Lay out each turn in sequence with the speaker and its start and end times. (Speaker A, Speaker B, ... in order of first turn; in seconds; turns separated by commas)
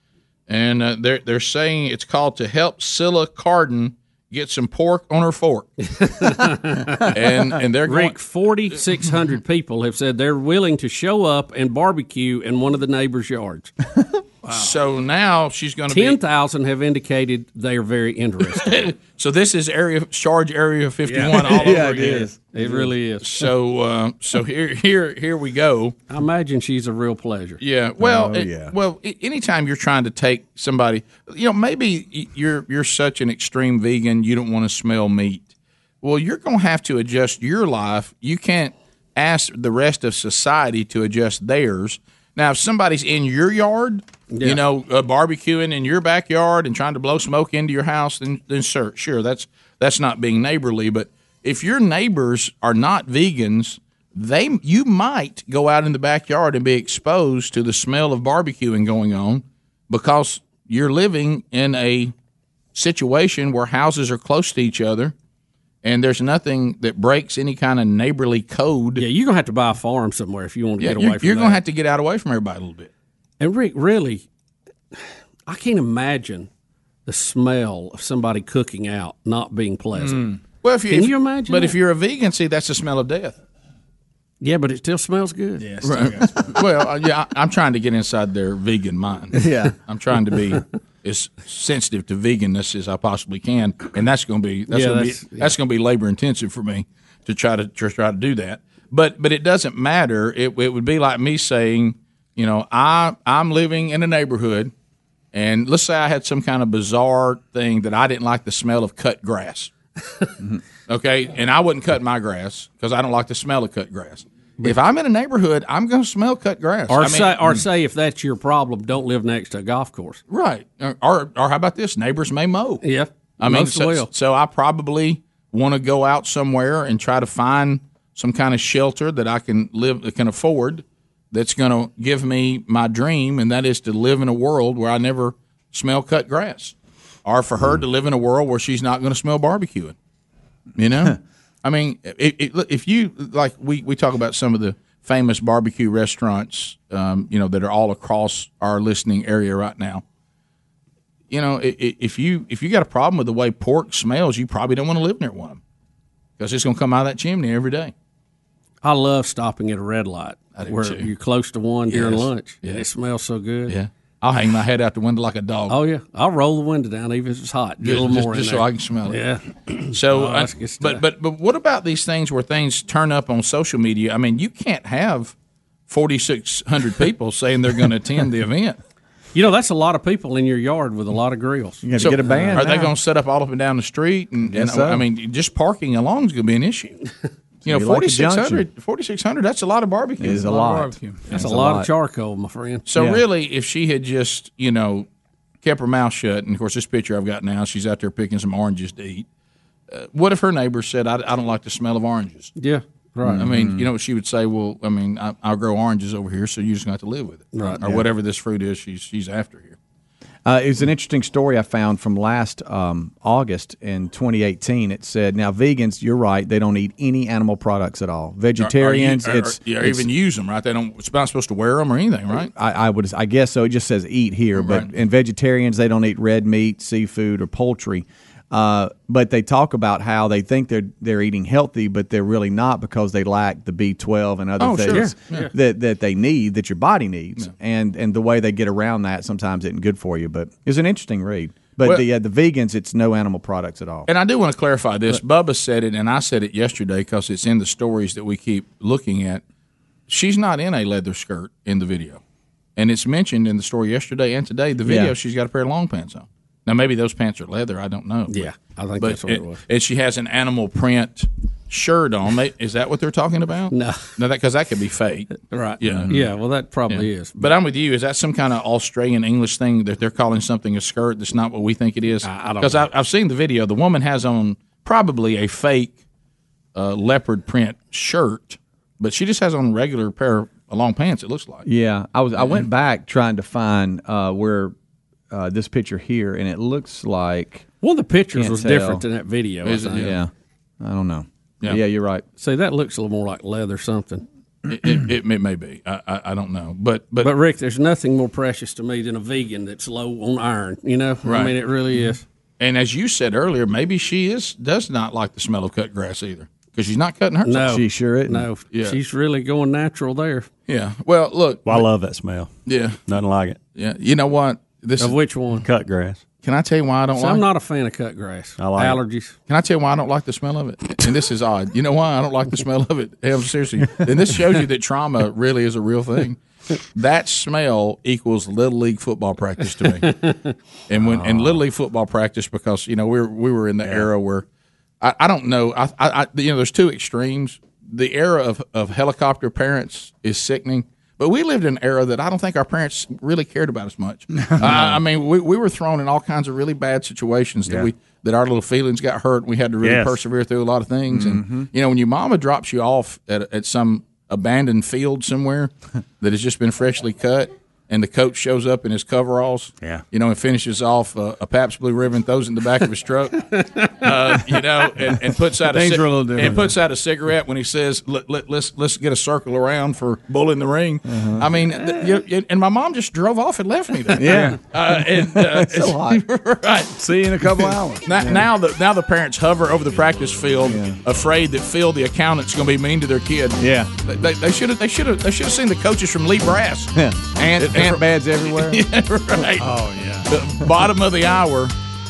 Speaker A: 0.5-5.7, Speaker B: 6.0-7.1, Speaker A: 7.1-8.2, Speaker B: 7.8-13.7, Speaker A: 14.5-16.2, Speaker B: 15.9-18.9, Speaker A: 18.5-26.0, Speaker B: 21.1-21.4, Speaker C: 21.3-22.8, Speaker B: 22.0-23.4, Speaker B: 26.1-27.6, Speaker A: 27.6-35.5, Speaker C: 28.0-28.7, Speaker A: 36.0-62.1, Speaker B: 44.3-44.6, Speaker A: 62.8-65.1, Speaker A: 65.8-69.0, Speaker B: 69.0-71.6, Speaker A: 70.8-72.9, Speaker B: 73.4-74.2, Speaker B: 75.0-76.5, Speaker B: 77.1-80.4, Speaker A: 80.0-83.4, Speaker B: 80.9-81.8, Speaker B: 84.4-86.1, Speaker D: 85.6-86.5, Speaker A: 85.8-104.7, Speaker B: 89.3-89.7, Speaker B: 94.7-95.5, Speaker A: 105.3-109.7, Speaker A: 110.9-117.6, Speaker B: 116.9-120.2, Speaker A: 120.3-122.8, Speaker B: 122.8-124.1, Speaker A: 123.4-139.9, Speaker A: 140.8-150.0, Speaker A: 151.3-155.6, Speaker A: 156.4-157.9, Speaker B: 158.8-163.8, Speaker A: 160.6-161.1, Speaker A: 161.9-162.9, Speaker A: 163.7-165.8, Speaker B: 165.7-171.0, Speaker A: 167.8-169.2, Speaker A: 169.9-175.3, Speaker A: 175.9-178.8, Speaker B: 179.3-182.6, Speaker C: 181.8-182.9, Speaker A: 182.0-187.0, Speaker C: 184.4-185.0, Speaker A: 187.7-190.5, Speaker C: 187.7-188.7, Speaker C: 190.2-191.9, Speaker D: 190.3-191.3, Speaker B: 191.3-192.9, Speaker A: 192.9-195.1, Speaker C: 192.9-193.2, Speaker A: 195.6-199.3, Speaker A: 199.9-202.5, Speaker B: 202.6-203.5, Speaker C: 203.2-203.9, Speaker A: 203.3-209.8, Speaker B: 207.5-207.8, Speaker C: 210.4-220.1, Speaker A: 218.6-222.5, Speaker C: 222.6-244.1, Speaker A: 224.6-224.9, Speaker A: 234.6-235.5, Speaker B: 234.9-235.5, Speaker A: 244.1-249.4, Speaker A: 250.1-252.2, Speaker A: 252.8-266.2, Speaker C: 254.8-255.1, Speaker B: 258.3-259.6, Speaker B: 263.7-264.1, Speaker B: 265.5-267.5, Speaker A: 266.9-276.0, Speaker B: 272.2-272.9, Speaker A: 276.8-281.7, Speaker C: 281.6-284.7, Speaker A: 282.4-282.7, Speaker C: 285.3-287.7, Speaker B: 287.8-290.2, Speaker C: 288.4-289.0, Speaker A: 289.6-290.2, Speaker C: 290.0-290.3, Speaker C: 290.8-292.2, Speaker B: 292.4-294.2, Speaker A: 294.7-297.3, Speaker B: 297.2-302.2, Speaker A: 301.2-301.6, Speaker A: 302.6-307.8, Speaker B: 307.4-310.5, Speaker C: 307.7-308.5, Speaker A: 308.7-309.0, Speaker A: 310.7-311.9, Speaker E: 311.6-312.5, Speaker A: 312.7-313.0, Speaker E: 313.1-313.6, Speaker A: 313.8-315.2, Speaker B: 315.0-315.6, Speaker E: 315.6-316.2, Speaker A: 316.4-317.4, Speaker B: 317.1-319.4, Speaker E: 318.6-319.0, Speaker A: 319.5-326.4, Speaker A: 326.9-330.1, Speaker B: 330.0-330.5, Speaker A: 330.9-334.4, Speaker C: 331.1-331.6, Speaker A: 335.0-363.4, Speaker E: 349.8-350.2, Speaker C: 351.1-351.7, Speaker B: 363.4-364.3, Speaker A: 364.0-376.9, Speaker D: 365.7-366.7, Speaker C: 371.1-371.5, Speaker C: 374.1-376.2, Speaker D: 374.3-374.6, Speaker D: 377.0-378.1, Speaker A: 378.1-389.7, Speaker C: 378.2-378.5, Speaker C: 380.6-381.0, Speaker C: 383.6-383.9, Speaker C: 386.9-388.8, Speaker E: 389.6-390.2, Speaker A: 390.3-391.7